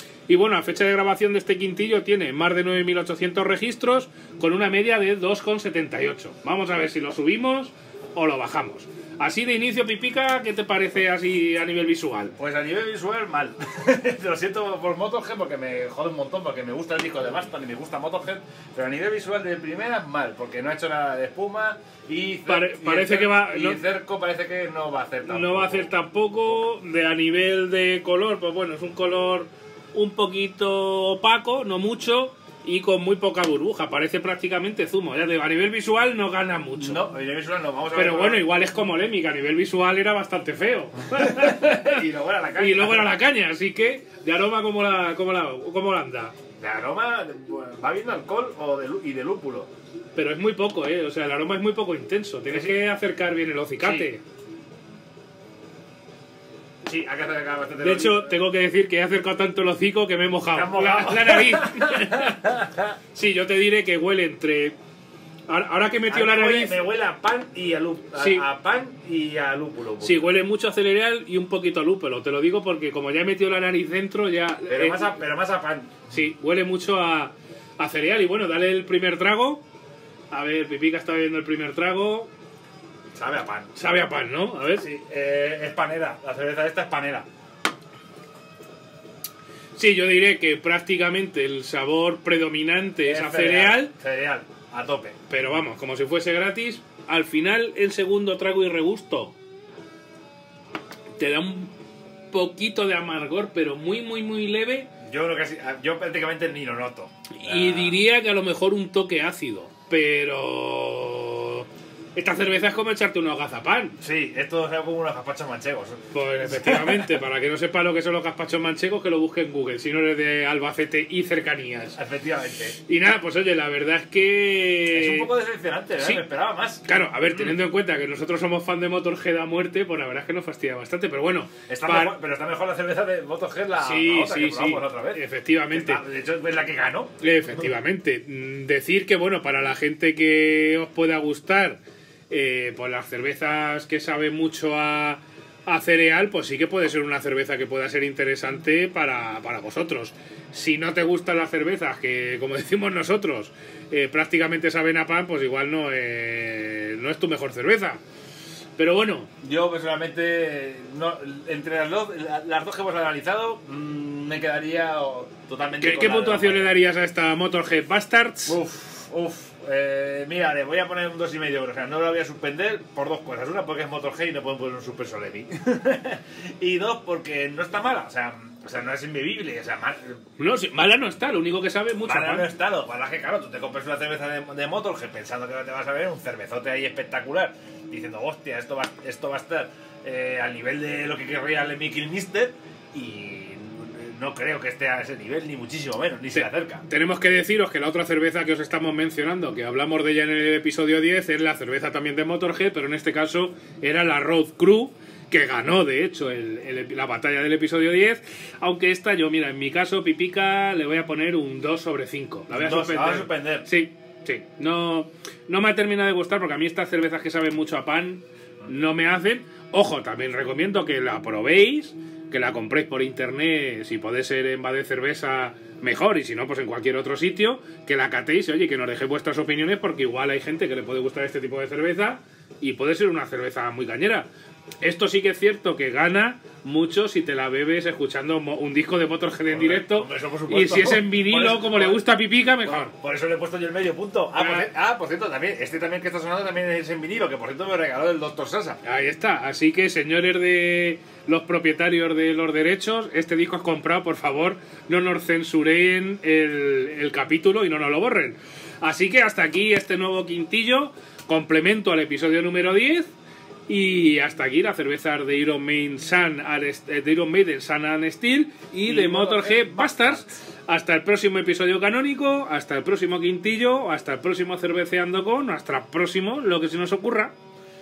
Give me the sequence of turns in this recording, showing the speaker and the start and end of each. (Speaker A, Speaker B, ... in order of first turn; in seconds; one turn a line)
Speaker A: 0.3-12.3
Speaker B: 12.4-25.9
Speaker A: 22.4-23.8
Speaker A: 25.2-37.1
Speaker B: 36.8-38.5
Speaker A: 37.9-42.0
Speaker B: 41.2-43.2
Speaker A: 42.5-46.3
Speaker B: 46.6-49.7
Speaker A: 50.1-54.2
Speaker B: 52.5-52.7
Speaker B: 53.8-54.1
Speaker B: 56.8-58.5
Speaker A: 57.8-62.6
Speaker B: 60.5-62.9
Speaker A: 63.1-64.8
Speaker A: 65.5-66.8
Speaker B: 66.1-70.3
Speaker A: 68.1-68.4
Speaker A: 70.0-75.2
Speaker B: 74.7-76.1
Speaker A: 76.1-79.6
Speaker A: 80.3-82.3
Speaker B: 83.1-83.7
Speaker A: 83.7-84.9
Speaker B: 84.8-87.2
Speaker A: 89.7-93.9
Speaker B: 93.0-95.2
Speaker A: 95.3-99.3
Speaker A: 101.2-101.7
Speaker A: 102.3-104.9
Speaker B: 105.0-108.0
Speaker A: 107.3-114.0
Speaker B: 114.0-117.2
Speaker A: 116.1-122.0
Speaker B: 121.9-122.8
Speaker A: 122.8-125.3
Speaker B: 124.9-127.6
Speaker A: 126.0-126.2
Speaker A: 126.8-132.1
Speaker B: 131.7-137.2
Speaker A: 133.8-136.0
Speaker A: 137.2-158.0
Speaker A: 158.8-159.3
Speaker B: 159.4-166.8
Speaker A: 165.8-168.6
Speaker B: 168.5-180.2
Speaker A: 180.4-182.5
Speaker B: 182.0-196.8
Speaker A: 196.3-234.3
Speaker B: 212.5-213.7
Speaker A: 234.8-242.9
Speaker B: 239.5-242.0
Speaker B: 242.6-248.8
Speaker A: 244.3-244.7
Speaker A: 248.8-263.1
Speaker A: 263.7-277.3
Speaker B: 268.8-270.3